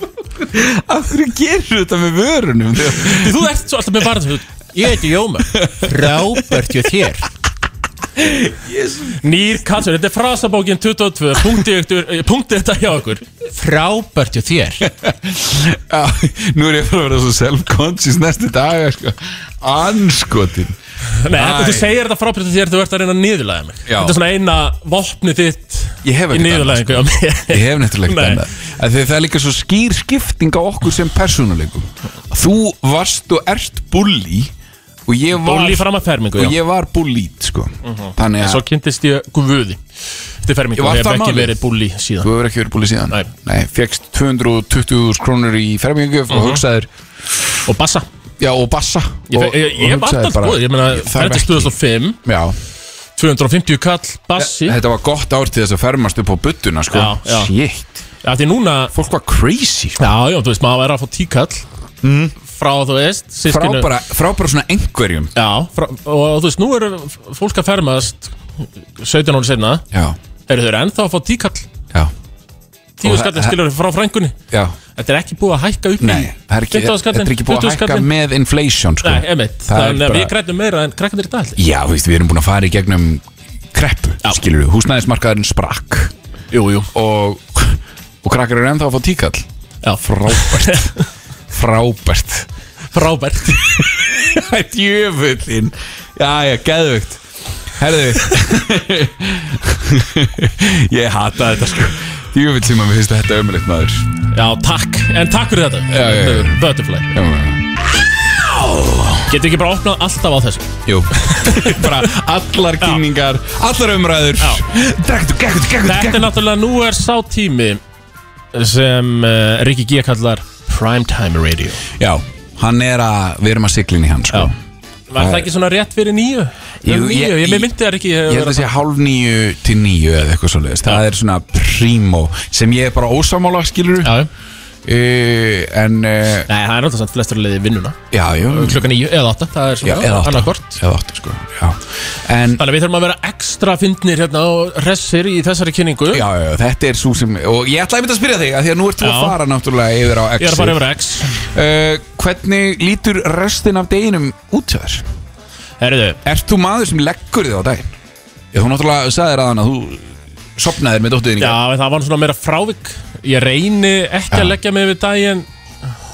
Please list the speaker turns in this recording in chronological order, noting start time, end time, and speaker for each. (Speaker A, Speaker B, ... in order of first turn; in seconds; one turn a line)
Speaker A: 0.4-3.5
Speaker B: 3.0-7.3
Speaker A: 5.5-7.0
Speaker A: 8.2-9.2
Speaker B: 9.2-14.9
Speaker A: 14.8-20.8
Speaker B: 21.2-28.4
Speaker A: 21.3-21.9
Speaker A: 23.9-24.2
Speaker A: 26.0-34.5
Speaker A: 35.1-38.6
Speaker B: 35.3-36.6
Speaker B: 37.8-39.8
Speaker B: 40.4-42.3
Speaker A: 40.8-41.5
Speaker A: 42.2-47.4
Speaker B: 46.3-46.6
Speaker B: 47.7-48.1
Speaker A: 48.4-52.5
Speaker B: 49.3-52.2
Speaker B: 53.2-54.8
Speaker A: 54.4-58.0
Speaker B: 56.9-57.5
Speaker B: 58.2-58.9
Speaker A: 58.9-60.1
Speaker B: 60.0-61.6
Speaker A: 62.0-62.4
Speaker B: 62.5-63.9
Speaker A: 63.5-65.3
Speaker B: 65.3-68.4
Speaker B: 69.0-69.8
Speaker A: 69.9-70.2
Speaker B: 70.5-71.7
Speaker B: 73.0-74.4
Speaker A: 73.0-73.6
Speaker A: 74.5-74.8
Speaker B: 75.0-78.1
Speaker A: 76.0-80.3
Speaker B: 79.0-81.6
Speaker A: 81.6-86.1
Speaker B: 86.5-86.9
Speaker A: 86.9-89.5
Speaker B: 89.8-91.0
Speaker A: 90.0-90.9
Speaker A: 91.5-92.5
Speaker B: 92.9-93.7
Speaker A: 93.5-97.2
Speaker A: 97.8-104.1
Speaker B: 104.3-107.2
Speaker A: 105.9-106.6
Speaker A: 107.1-107.7
Speaker A: 108.2-109.3
Speaker B: 109.3-112.1
Speaker A: 110.9-116.3
Speaker B: 115.8-117.8
Speaker B: 118.5-121.8
Speaker A: 122.0-124.5
Speaker B: 125.1-128.7
Speaker A: 125.2-125.5
Speaker A: 126.8-127.7
Speaker A: 128.3-134.2
Speaker B: 134.0-134.3
Speaker A: 134.8-136.5
Speaker B: 136.5-140.8
Speaker A: 138.1-138.8
Speaker A: 139.8-142.6
Speaker B: 142.6-146.2
Speaker A: 146.1-150.8
Speaker B: 149.0-149.4
Speaker B: 150.4-151.5
Speaker A: 151.4-155.1
Speaker B: 155.8-156.2
Speaker A: 156.2-157.9
Speaker A: 158.5-161.6
Speaker B: 161.4-165.5
Speaker A: 164.3-164.6